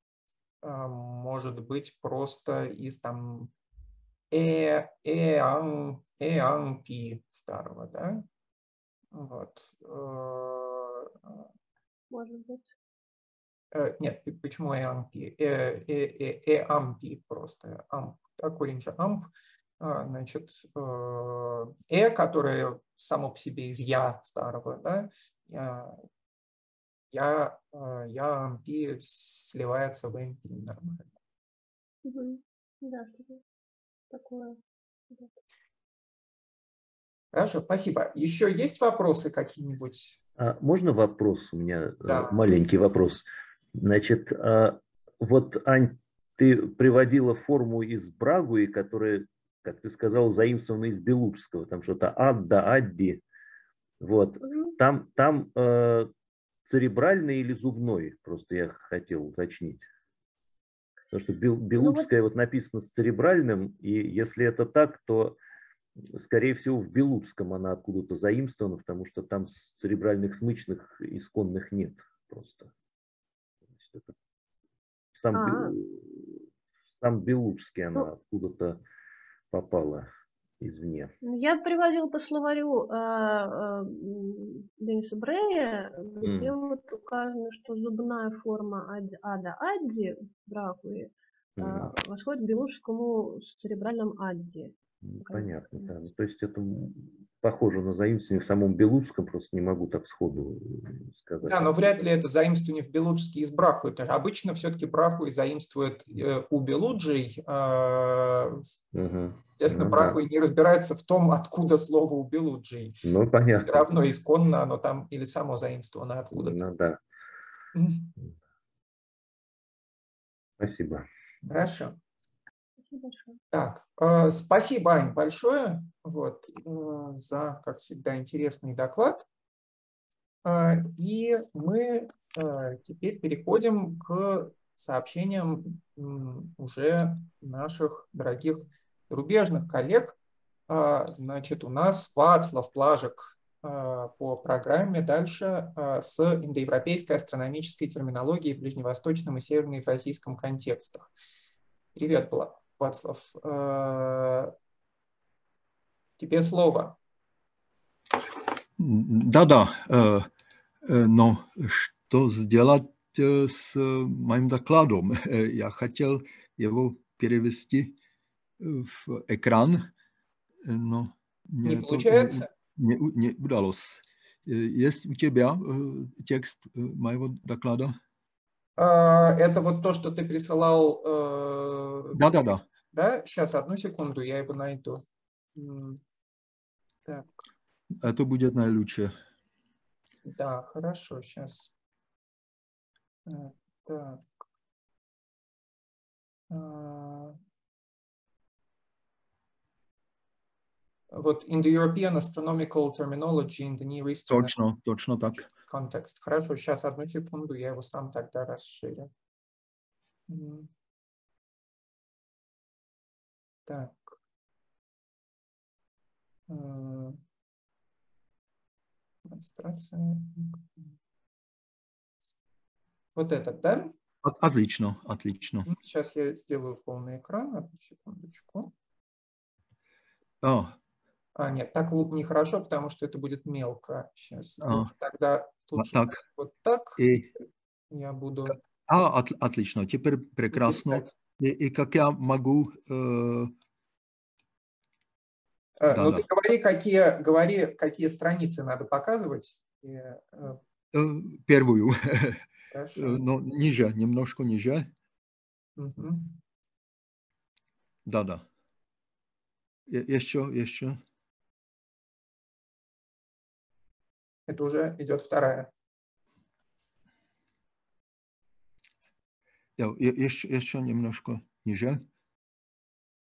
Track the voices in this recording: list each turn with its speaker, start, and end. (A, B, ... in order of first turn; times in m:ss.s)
0:00.6-0:03.5 A
0:04.3-0:08.2 A
0:09.1-0:11.5 A
0:12.1-0:12.7 B
0:13.7-0:26.0 A
0:27.1-0:31.1 A
0:32.0-0:33.4 B
0:34.1-0:34.6 B
0:37.3-0:40.2 A
0:40.4-0:43.2 C
0:42.0-0:42.4 A
0:43.8-0:53.2 C
0:54.0-0:56.1 C
0:54.4-0:54.7 B
0:56.7-0:59.9 C
1:01.1-1:05.4 C
1:01.8-1:02.1 B
1:06.0-1:12.7 C
1:13.7-1:14.1 C
1:15.2-1:16.5 C
1:15.3-1:15.7 B
1:17.0-1:18.8 C
1:19.5-1:20.1 C
1:20.6-1:21.2 C
1:21.2-1:36.0 B
1:26.2-1:26.6 C
1:31.6-1:31.9 C
1:35.0-1:41.8 C
1:41.5-1:48.6 A
1:48.9-1:50.2 C
1:49.6-1:53.0 A
1:53.0-1:53.9 C
1:53.6-1:56.6 A
1:56.3-1:57.0 C
1:57.8-1:58.1 A
2:00.6-2:01.1 C
2:01.4-2:02.0 A
2:02.8-2:03.4 B
2:03.5-2:09.2 A
2:10.4-2:20.2 A
2:20.7-2:31.1 A
2:32.0-2:34.5 A
2:36.2-2:37.0 A
2:38.8-2:40.3 D
2:40.9-2:48.0 D
2:48.6-2:49.9 D
2:50.6-2:58.0 D
2:51.6-2:52.5 A
2:58.8-3:02.2 A
3:02.1-3:02.6 D
3:02.9-3:05.0 A
3:05.6-3:06.0 A
3:08.0-3:09.1 D
3:10.2-3:11.7 A
3:13.3-3:14.3 A
3:16.5-3:17.4 A
3:21.1-3:24.5 A
3:24.3-3:25.5 D
3:25.7-3:29.1 A
3:30.3-3:30.7 A
3:33.7-3:34.2 A
3:36.5-3:37.2 A
3:39.3-3:40.9 A
3:43.2-3:43.9 A
3:44.2-3:45.7 D
3:45.7-3:48.7 A
3:50.4-3:50.8 D
3:51.4-3:57.0 A
3:54.6-3:54.9 D
3:55.8-3:56.2 D
3:57.0-3:57.3 D
3:57.9-3:58.6 A
3:58.5-4:03.5 D
4:00.5-4:01.1 A
4:05.8-4:10.6 A
4:05.9-4:06.2 D
4:10.9-4:12.4 D
4:12.7-4:13.2 A
4:13.0-4:14.9 D
4:15.8-4:16.4 A
4:18.1-4:18.5 D
4:19.9-4:21.0 D
4:24.5-4:25.7 A
4:29.8-4:32.0 D